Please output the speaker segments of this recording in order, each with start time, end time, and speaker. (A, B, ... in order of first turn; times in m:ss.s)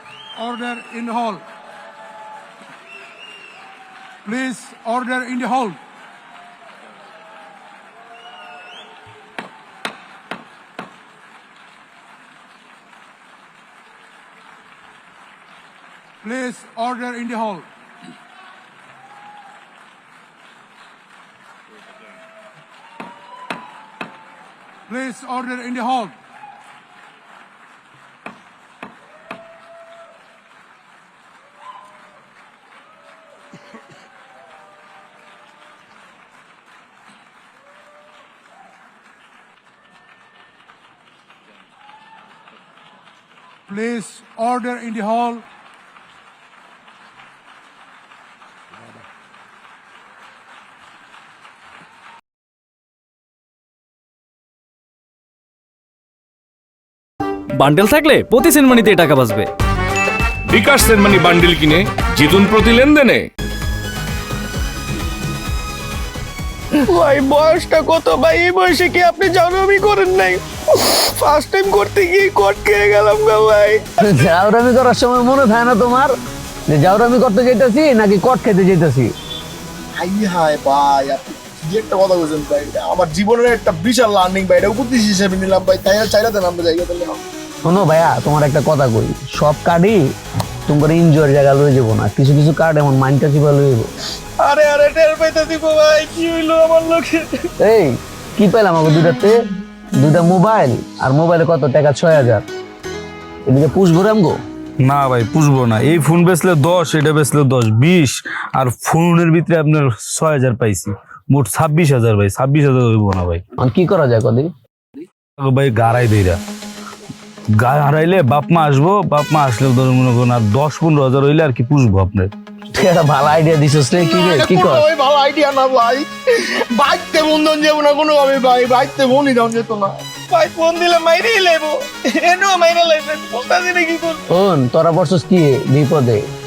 0:00.4-0:01.4 A
0:04.3-0:05.8 A
0:16.2-0:17.7 A
0:24.9-0:26.1 A
0:43.7-0:45.4 A
0:57.6-0:59.5 B
1:00.5-1:03.3 C
1:06.8-1:14.0 D
1:14.0-1:16.1 E
1:16.7-1:19.1 E
1:20.0-1:27.2 F
1:27.6-1:30.0 E
1:30.7-1:33.9 E
1:34.4-1:37.5 D
1:37.6-1:39.4 E
1:39.9-1:42.4 E
1:43.5-1:44.4 E
1:44.8-1:53.4 G
1:53.6-1:54.5 E
1:55.4-1:56.4 G
1:57.6-2:02.3 G
2:02.7-2:04.9 E
2:03.9-2:10.0 F
2:10.3-2:14.2 D
2:14.3-2:16.2 E